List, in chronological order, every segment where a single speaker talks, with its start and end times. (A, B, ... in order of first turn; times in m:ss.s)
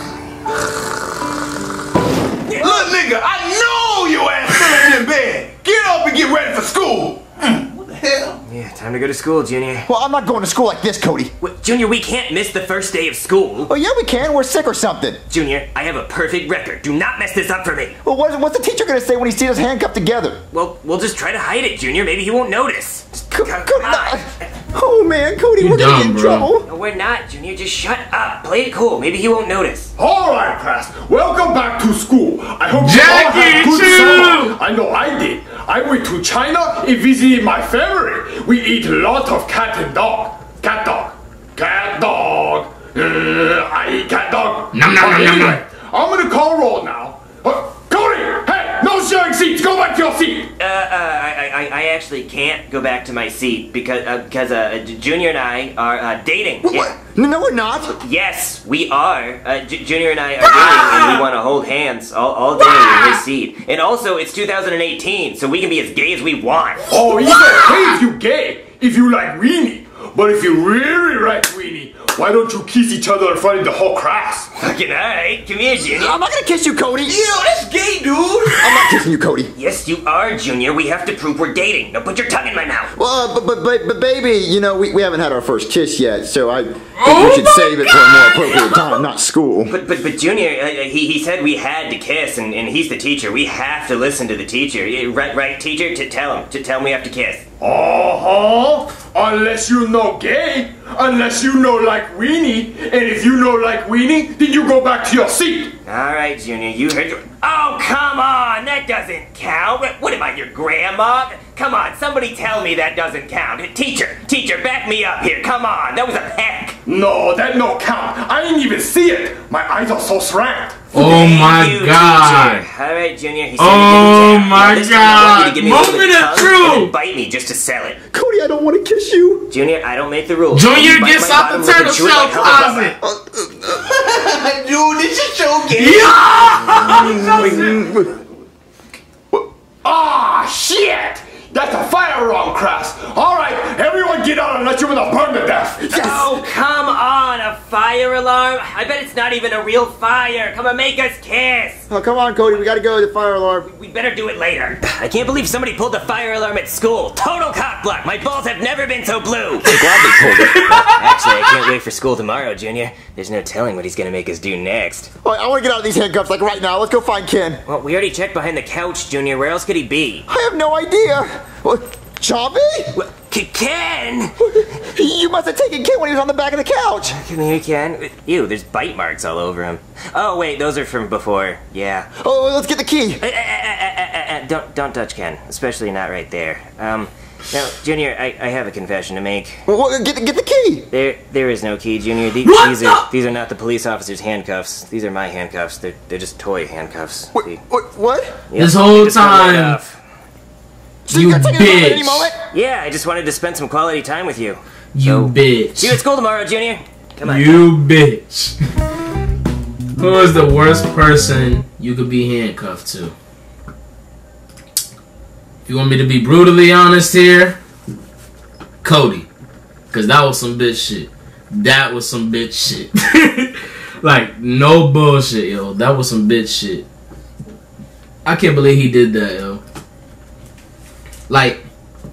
0:02.5-0:02.8 A
0:02.5-0:08.4 B
0:08.5-0:09.9 A
0:09.9-0:11.3 C
0:11.4-0:13.7 A
0:13.7-0:15.2 C
0:15.3-0:18.0 A
0:18.0-0:20.4 C
0:20.5-0:24.2 A
0:23.3-0:26.7 C
0:25.6-0:26.5 D
0:26.6-0:29.9 A
0:30.0-0:50.5 E
0:32.8-0:34.6 D
0:44.7-0:45.6 D
0:50.6-0:56.9 A
0:56.6-0:57.9 C
0:57.9-1:06.9 A
1:00.4-1:01.2 D
1:02.6-1:03.2 D
1:06.9-1:14.5 E
1:14.6-1:16.2 A
1:16.0-1:17.2 C
1:17.0-1:19.0 B
1:18.6-1:19.5 C
1:19.5-1:22.9 A
1:22.9-1:29.8 C
1:27.0-1:29.0 D
1:29.7-1:37.4 A
1:37.6-1:45.7 E
1:45.8-1:56.8 A
1:56.9-2:00.9 E
2:00.9-2:02.6 D
2:00.9-2:08.0 A
2:03.6-2:06.9 D
2:08.1-2:09.5 C
2:09.5-2:13.0 A
2:10.5-2:13.0 D
2:13.0-2:13.9 C
2:13.7-2:18.0 B
2:15.7-2:17.8 D
2:17.1-2:18.1 C
2:19.8-2:25.9 E
2:25.9-2:31.8 A
2:25.9-2:26.4 C
2:31.9-2:33.7 C
2:33.6-2:39.7 A
2:39.6-2:40.7 C
2:40.2-2:40.9 D
2:40.5-2:45.1 A
2:45.2-2:47.6 C
2:47.6-2:50.2 A
2:50.3-2:53.0 C
2:52.9-2:54.4 A
2:54.4-2:57.2 C
2:57.1-3:02.1 A
3:02.2-3:03.2 C
3:03.2-3:09.6 A
3:09.6-3:10.9 C
3:10.9-3:17.6 A
3:12.4-3:13.0 D
3:17.3-3:18.3 C
3:18.5-3:20.0 A
3:18.6-3:19.8 D
3:21.0-3:22.4 C
3:21.1-3:22.3 D
3:22.5-3:27.7 A
3:24.9-3:26.0 D
3:27.2-3:28.5 D
3:30.0-3:33.1 D
3:35.7-3:37.6 D
3:38.8-3:39.3 D
3:39.9-3:46.9 D
3:48.2-3:49.6 D
3:51.3-3:51.6 D